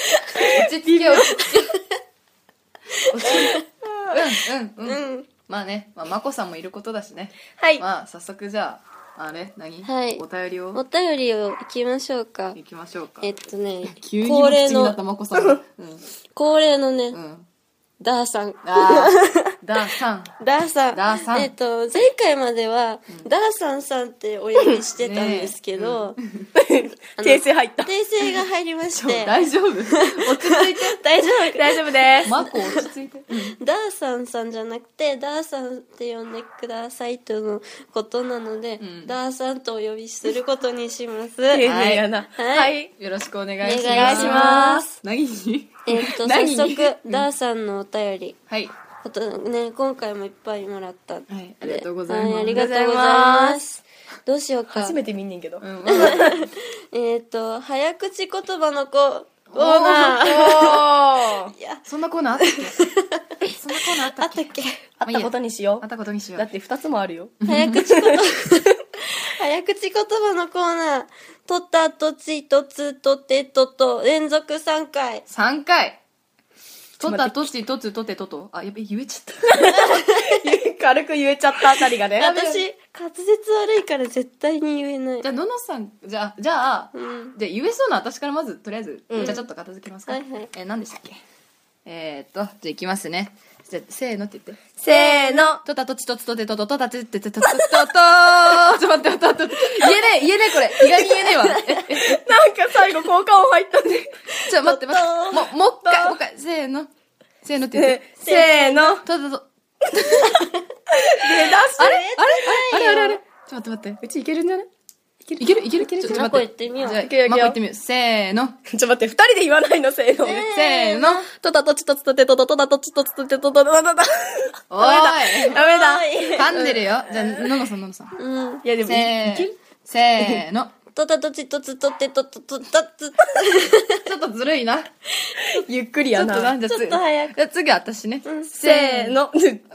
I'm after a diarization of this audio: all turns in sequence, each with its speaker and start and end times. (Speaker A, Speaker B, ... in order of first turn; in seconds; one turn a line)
Speaker A: 0.4-1.4
Speaker B: 0.4-1.6
Speaker C: 1.5-1.7
Speaker B: 3.1-10.8
Speaker C: 3.2-3.6
Speaker A: 3.9-4.1
Speaker C: 4.8-5.3
Speaker A: 7.6-7.8
Speaker C: 9.8-12.6
Speaker B: 12.5-13.3
Speaker C: 13.2-15.0
Speaker B: 13.8-16.0
Speaker C: 16.3-17.2
Speaker B: 17.1-17.5
Speaker C: 18.0-19.5
Speaker B: 18.6-20.3
Speaker C: 20.4-26.2
Speaker B: 20.9-21.5
Speaker B: 25.0-26.5
Speaker A: 26.6-27.9
Speaker C: 27.2-29.3
Speaker B: 28.9-31.0
Speaker C: 29.9-32.9
Speaker A: 31.2-32.3
Speaker B: 32.2-33.6
Speaker C: 33.5-41.6
Speaker B: 38.8-39.2
Speaker A: 41.5-42.9
Speaker B: 41.6-42.0
Speaker C: 42.4-42.7
Speaker B: 43.0-47.3
Speaker C: 43.6-45.0
Speaker A: 43.9-44.8
Speaker C: 45.9-48.4
Speaker C: 49.0-55.0
Speaker B: 51.3-52.7
Speaker A: 52.5-53.6
Speaker A: 54.7-56.4
Speaker B: 55.6-56.4
Speaker C: 55.9-60.8
Speaker B: 59.5-60.6
Speaker A: 60.1-61.5
Speaker C: 61.5-61.8
Speaker B: 61.9-62.8
Speaker C: 62.4-63.4
Speaker B: 63.5-64.5
Speaker C: 64.1-64.8
Speaker A: 65.0-65.8
Speaker B: 65.0-66.5
Speaker A: 66.4-67.3
Speaker B: 67.4-67.8
Speaker C: 67.4-75.2
Speaker A: 67.8-68.2
Speaker B: 75.3-76.0
Speaker B: 77.0-79.6
Speaker A: 77.0-77.5
Speaker A: 79.5-82.4
Speaker C: 79.7-80.4
Speaker C: 82.2-85.3
Speaker B: 82.2-82.6
Speaker B: 85.2-91.2
Speaker C: 86.9-87.3
Speaker A: 89.1-89.4
Speaker C: 90.1-90.5
Speaker B: 91.8-94.6
Speaker A: 94.8-95.6
Speaker C: 94.9-95.5
Speaker B: 95.6-102.2
Speaker A: 99.8-100.0
Speaker A: 100.7-104.1
Speaker B: 104.5-106.9
Speaker C: 104.7-105.5
Speaker A: 105.8-106.2
Speaker B: 107.4-108.0
Speaker A: 107.7-109.0
Speaker C: 108.2-109.0
Speaker B: 109.0-110.3
Speaker A: 111.0-113.2
Speaker C: 111.8-113.0
Speaker B: 111.8-114.0
Speaker A: 114.0-114.7
Speaker A: 115.3-116.2
Speaker B: 115.4-118.6
Speaker C: 116.0-117.0
Speaker A: 117.0-117.6
Speaker A: 118.7-120.4
Speaker C: 120.2-121.3
Speaker B: 120.3-121.3
Speaker A: 121.3-127.5
Speaker B: 124.7-125.6
Speaker C: 125.5-126.6
Speaker B: 126.3-128.2
Speaker C: 128.2-128.6
Speaker A: 128.6-129.6
Speaker B: 128.8-130.7
Speaker C: 130.9-134.0
Speaker B: 134.0-134.9
Speaker A: 135.4-136.5
Speaker B: 136.1-139.2
Speaker C: 136.6-137.3
Speaker C: 138.2-138.5
Speaker A: 138.5-139.7